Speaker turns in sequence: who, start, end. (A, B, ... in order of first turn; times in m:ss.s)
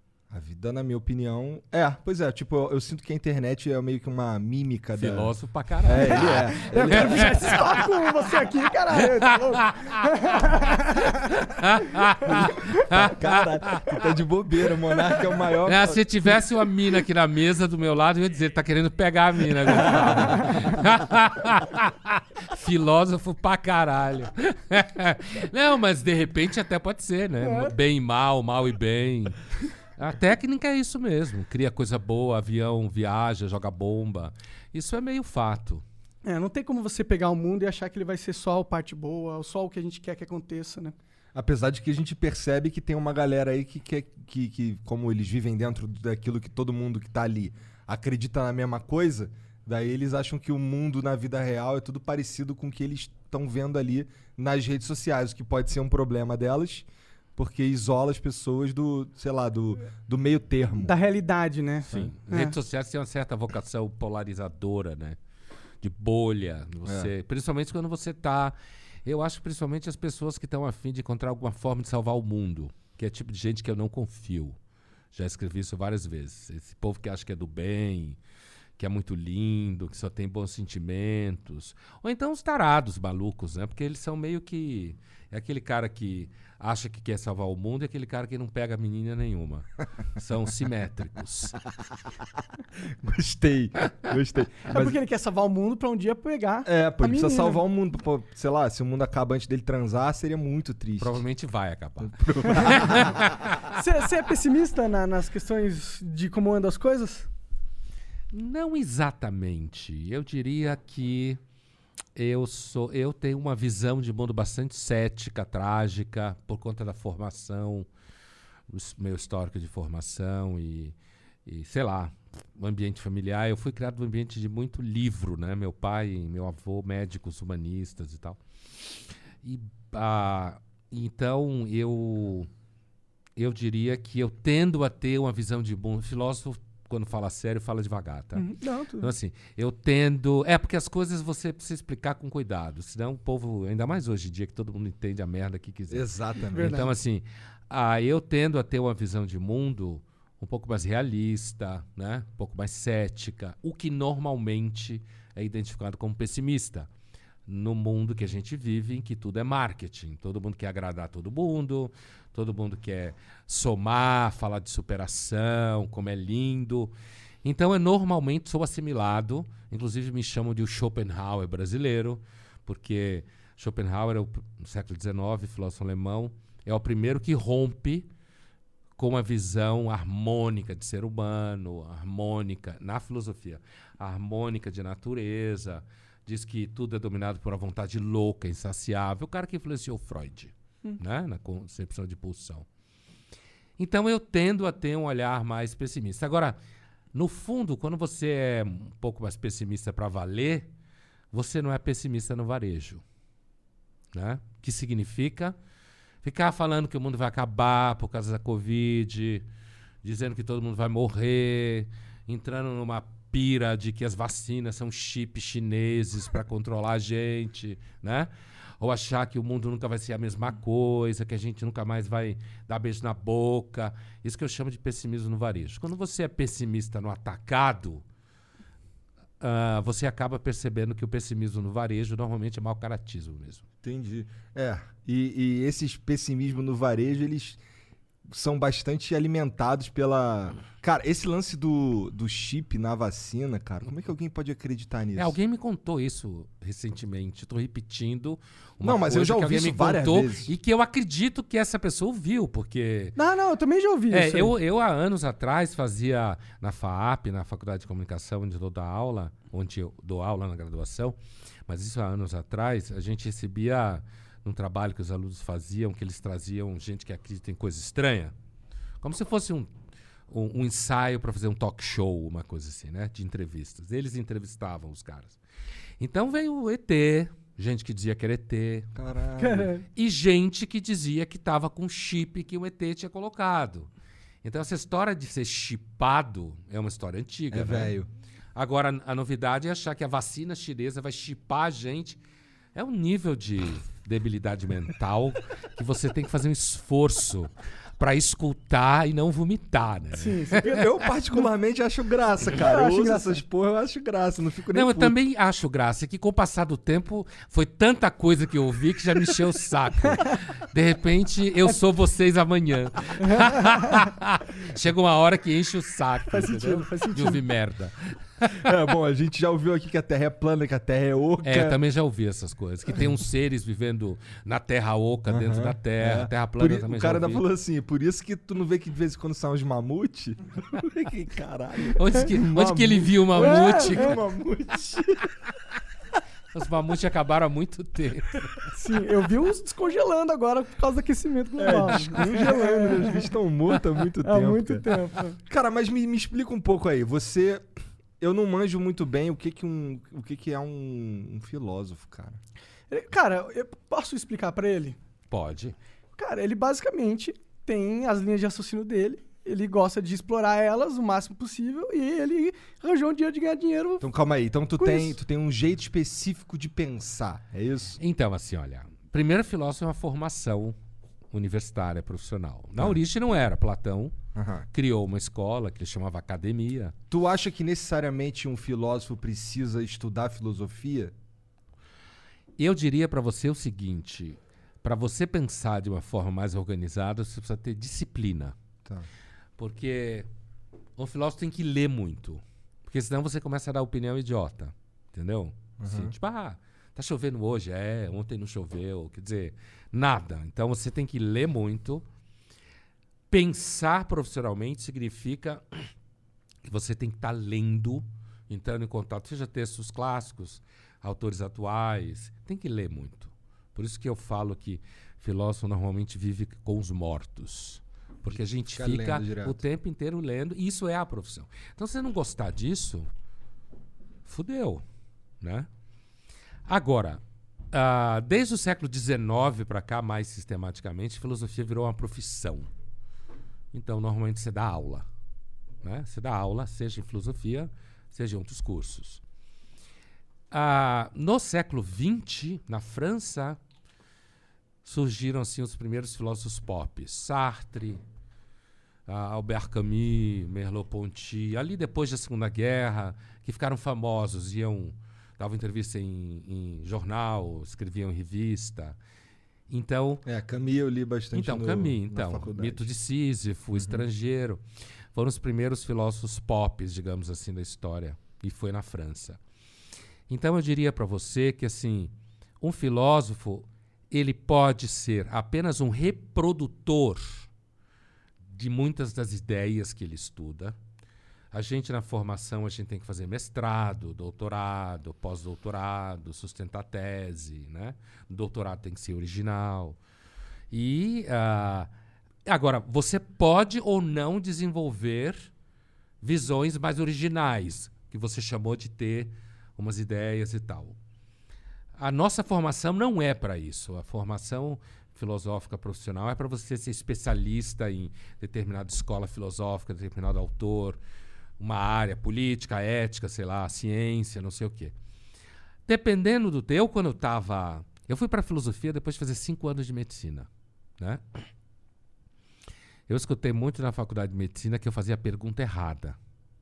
0:00.3-0:05.3 A
0:05.0-0:10.3 B
0:05.8-0:07.6 A
0:06.0-0:11.2 C
0:11.1-0:14.1 B
0:12.3-0:16.0 A
0:15.6-0:35.8 B
0:27.4-0:27.7 C
0:36.2-0:41.0 C
0:41.3-1:00.9 A
1:00.8-1:02.5 C
1:01.9-1:05.2 B
1:05.8-1:14.6 B
1:06.8-1:07.1 A
1:15.1-1:18.2 B
1:18.8-1:31.6 B
1:32.8-1:34.9 A
1:34.7-1:37.6 C
1:36.6-1:41.2 A
1:41.0-1:43.8 B
1:42.0-1:43.2 A
1:43.7-1:47.3 C
1:48.3-1:51.4 B
1:52.1-1:57.9 B
1:58.7-2:00.9 B
2:01.4-2:12.5 B
2:13.4-2:18.5 B
2:18.3-2:19.1 C
2:19.0-2:36.9 B
2:25.9-2:26.9 A
2:26.5-2:26.9 C
2:37.5-2:46.9 B
2:47.4-2:58.1 B
2:59.0-3:12.6 B
3:13.8-3:16.6 B
3:17.1-3:20.7 B
3:21.3-3:23.0 B
3:24.1-3:25.6 B
3:26.2-3:29.4 B
3:30.0-3:38.3 B
3:38.8-3:48.0 B
3:49.4-3:53.6 B
3:53.8-3:57.6 A
3:58.2-4:05.3 A
4:05.2-4:13.2 B
4:08.8-4:10.5 A
4:13.2-4:14.5 C
4:14.1-4:28.3 B
4:29.0-4:29.7 B
4:30.3-4:35.4 B
4:36.0-4:38.9 B
4:38.9-4:39.7 A
4:39.4-4:39.8 C
4:39.9-4:43.9 B
4:44.4-4:47.9 B
4:47.5-4:48.1 A
4:48.5-4:52.2 B
4:52.7-5:00.6 B
5:00.2-5:01.4 C
5:00.6-5:05.2 A
5:02.5-5:03.4 C
5:04.7-5:18.7 B
5:13.2-5:14.0 C
5:16.3-5:17.4 C
5:18.6-5:21.8 A
5:21.4-5:27.4 B
5:25.3-5:35.4 A
5:31.9-5:34.2 B
5:33.3-5:34.2 C
5:36.5-5:38.6 B
5:38.6-5:43.2 C
5:41.6-5:44.9 A
5:44.2-5:45.4 C
5:45.4-5:52.4 A
5:52.9-5:55.0 C
5:55.3-5:55.8 B
5:56.2-6:04.1 C
6:04.0-6:08.0 A
6:04.8-6:05.2 C
6:08.0-6:10.8 B
6:11.3-6:14.2 B
6:14.3-6:14.7 A
6:14.7-6:16.9 B
6:17.1-6:21.1 A
6:22.6-6:28.5 B
6:29.6-6:30.3 B
6:31.0-6:42.0 B
6:35.8-6:36.1 A
6:43.3-6:45.9 B
6:46.6-7:03.1 B
6:58.7-6:59.6 A
7:04.2-7:04.8 B
7:05.4-7:05.7 B
7:06.7-7:07.2 B
7:07.7-7:12.7 B
7:13.7-7:15.1 B
7:15.8-7:19.2 B
7:20.5-7:23.6 B
7:24.8-7:28.0 B
7:29.1-7:39.0 B
7:39.7-7:40.2 B
7:40.2-7:42.8 A
7:41.3-7:44.6 B
7:45.1-7:49.4 B
7:50.3-7:57.5 B
7:58.5-8:00.8 B
8:01.5-8:10.0 B
8:10.7-8:11.9 B
8:12.4-8:15.5 B
8:16.2-8:21.0 B
8:22.0-8:31.0 B
8:31.6-8:34.9 B
8:35.8-8:41.2 B
8:43.1-8:46.2 B